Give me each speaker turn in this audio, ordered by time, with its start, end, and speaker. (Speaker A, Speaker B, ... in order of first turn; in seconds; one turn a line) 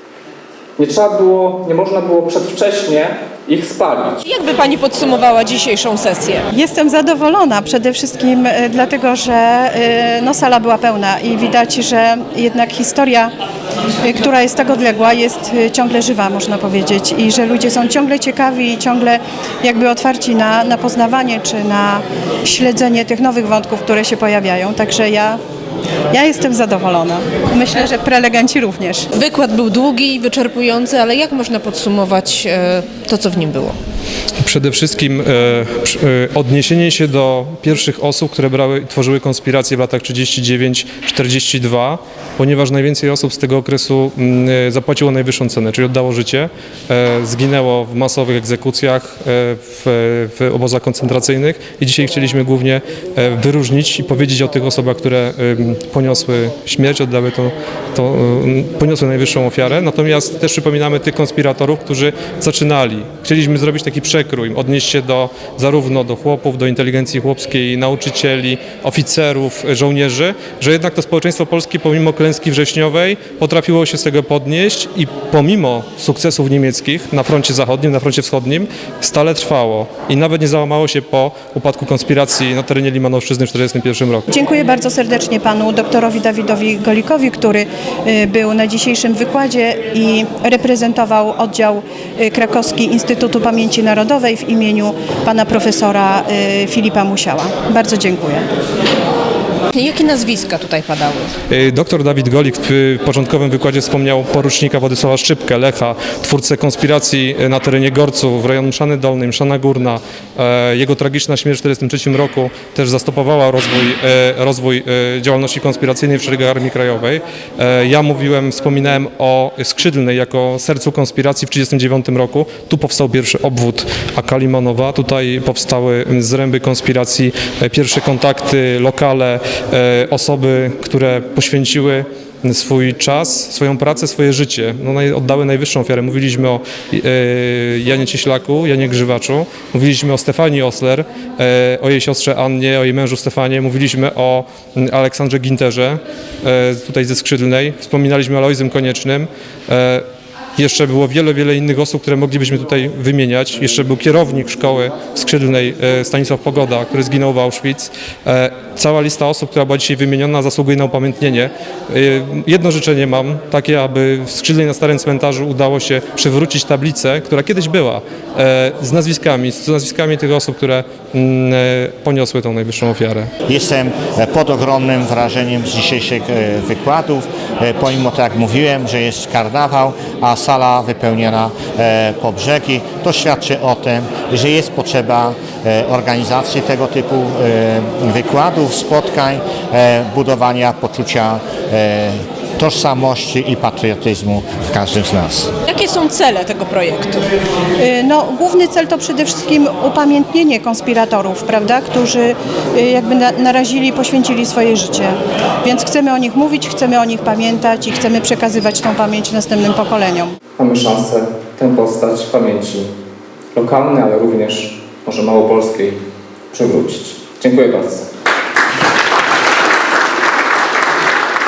Speaker A: 0.8-4.3
Speaker B: 4.3-6.5
Speaker C: 6.5-13.3
Speaker C: 14.0-25.4
Speaker C: 26.1-29.1
Speaker B: 29.1-33.8
Speaker D: 34.4-84.3
Speaker C: 84.3-98.5
Speaker B: 99.7-101.3
Speaker D: 101.5-150.0
Speaker D: 150.6-173.3
Speaker E: 173.5-195.5
Speaker B: 195.7-197.3
Speaker C: 197.8-210.3
Speaker A: 210.6-212.9
Speaker A: 213.5-218.1